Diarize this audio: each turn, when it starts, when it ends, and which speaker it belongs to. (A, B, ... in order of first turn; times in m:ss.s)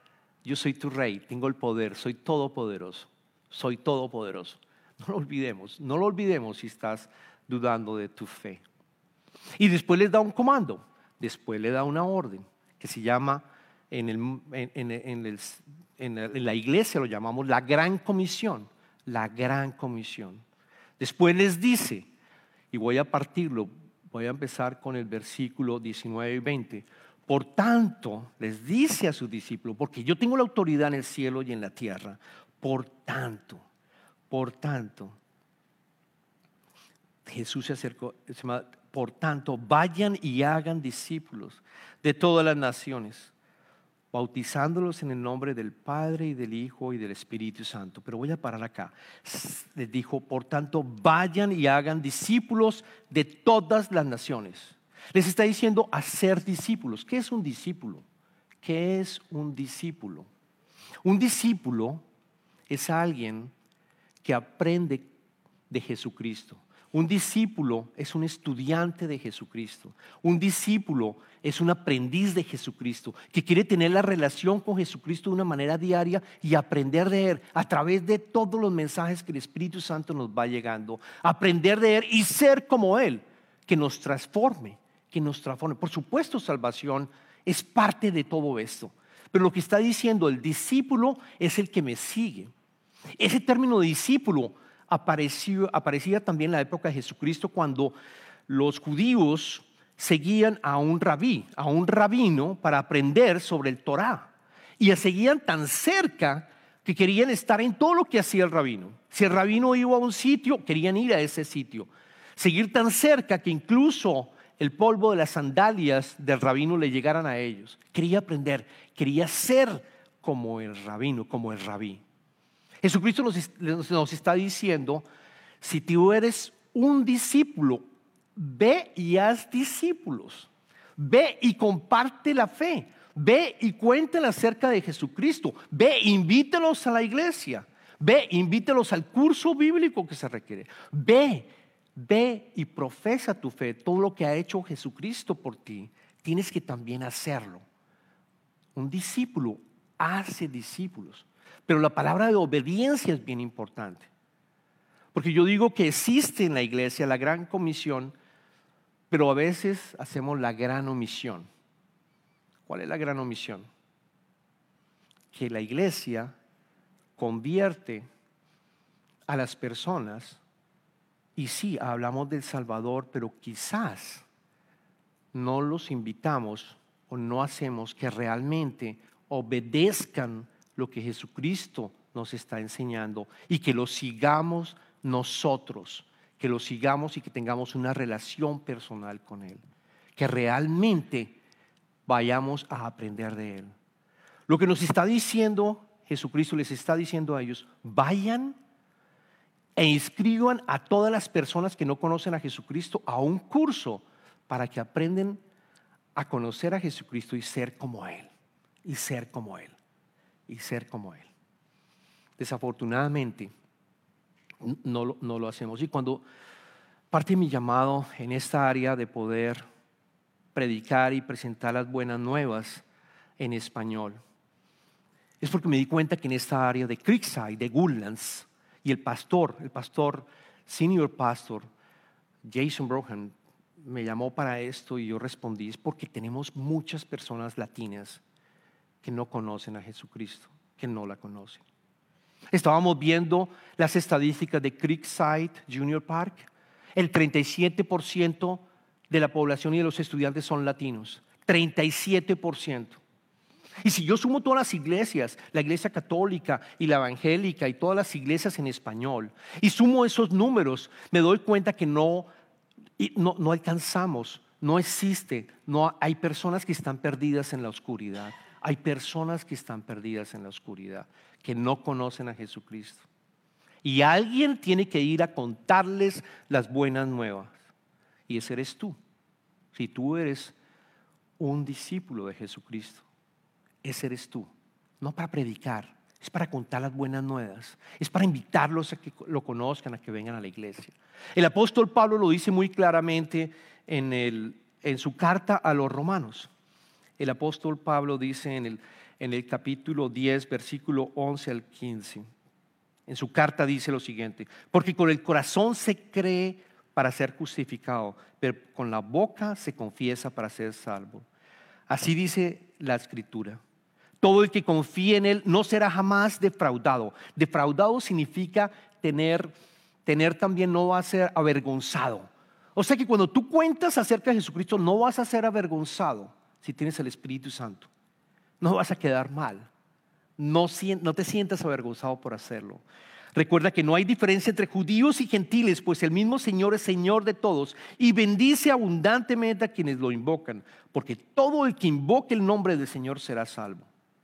0:00.4-0:08.6 A
0:09.6-0:20.4 A
0:21.0-0:22.1 A
0:22.7-0:33.6 A
0:34.3-0:35.2 A
0:37.2-0:43.3 A
0:44.1-0:58.0 A
0:58.6-1:00.3 A
1:01.0-1:02.0 A
1:02.7-1:03.5 A
1:04.2-1:05.1 A
1:05.7-1:32.5 A
1:33.2-1:37.9 A
1:38.5-2:02.0 A
2:02.8-2:05.0 A
2:05.6-2:07.8 A
2:08.4-2:27.6 A
2:28.8-2:34.1 A
2:35.1-2:38.2 A
2:39.1-2:41.5 A
2:42.7-2:43.7 A
2:45.3-2:46.4 A
2:47.2-2:48.1 A
2:49.3-2:50.4 A
2:51.4-2:54.3 A
2:55.3-3:09.6 A
3:10.2-3:11.4 A
3:12.1-3:13.7 A
3:14.5-3:18.6 A
3:19.8-3:25.4 A
3:26.2-3:28.3 A
3:28.8-3:29.8 A
3:30.5-3:31.3 A
3:32.4-3:33.5 A
3:34.6-3:36.2 A
3:37.1-3:39.6 A
3:40.6-3:42.8 A
3:43.4-3:44.2 A
3:45.4-3:51.6 A
3:52.4-3:58.2 A
3:59.0-4:01.6 A
4:02.5-4:13.0 A
4:13.8-4:22.3 A
4:23.0-4:33.1 A
4:33.8-4:37.6 A
4:38.3-4:39.0 A
4:39.7-4:40.6 A
4:41.4-4:43.1 A
4:43.8-4:56.5 A
4:57.2-5:02.2 A
5:03.1-5:11.3 A
5:11.9-5:13.6 A
5:14.2-5:19.5 A
5:20.1-5:27.9 A
5:28.6-5:29.7 A
5:30.4-5:32.8 A
5:33.3-5:43.9 A